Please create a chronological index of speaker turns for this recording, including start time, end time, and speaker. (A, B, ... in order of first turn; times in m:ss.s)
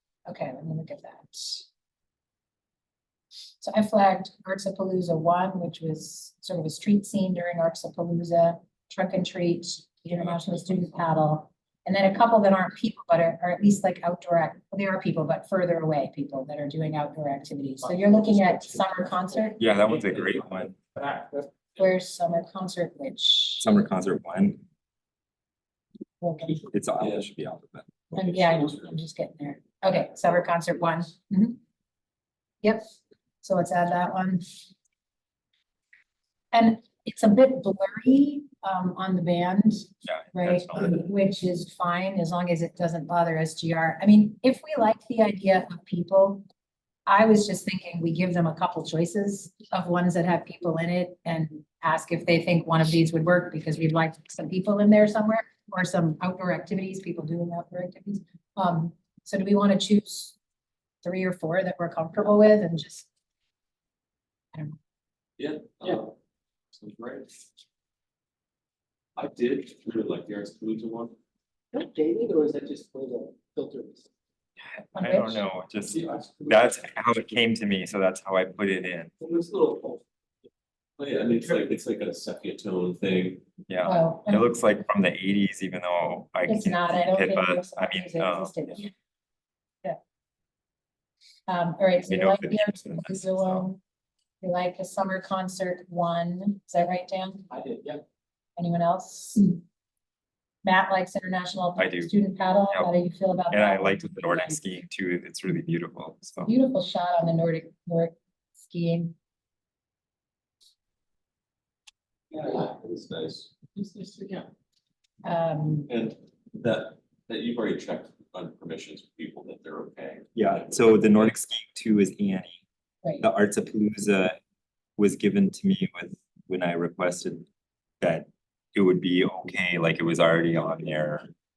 0:00.2-0:01.6 A
0:03.6-0:19.6 A
0:19.6-0:20.8 B
0:21.8-0:23.7 A
0:23.6-0:24.6 B
0:26.2-0:26.7 A
0:26.7-0:27.9 B
0:27.0-0:27.3 C
0:28.1-0:29.0 C
0:28.1-0:31.6 A
0:32.6-0:34.5 A
0:36.5-0:46.4 A
0:40.0-0:41.0 B
0:47.0-1:00.4 A
1:01.0-1:03.1 A
1:05.4-1:06.1 C
1:06.7-1:07.3 C
1:09.2-1:11.1 C
1:11.7-1:14.0 D
1:14.7-1:15.4 A
1:15.0-1:19.1 B
1:15.9-1:16.6 C
1:19.3-1:20.0 D
1:21.0-1:23.4 C
1:23.7-1:28.8 B
1:23.8-1:24.5 A
1:26.5-1:28.9 A
1:31.5-1:33.8 A
1:32.0-1:33.6 B
1:34.4-1:37.4 A
1:37.5-1:38.0 D
1:38.6-1:39.6 A
1:40.6-1:44.6 A
1:41.8-1:42.1 B
1:43.5-1:46.5 B
1:46.4-1:49.1 A
1:52.4-1:53.5 C
1:53.8-1:54.4 D
1:55.2-1:55.9 A
1:55.9-2:01.3 C
2:00.4-2:02.6 B
2:03.2-2:04.4 B
2:05.0-2:07.4 B
2:08.0-2:11.3 B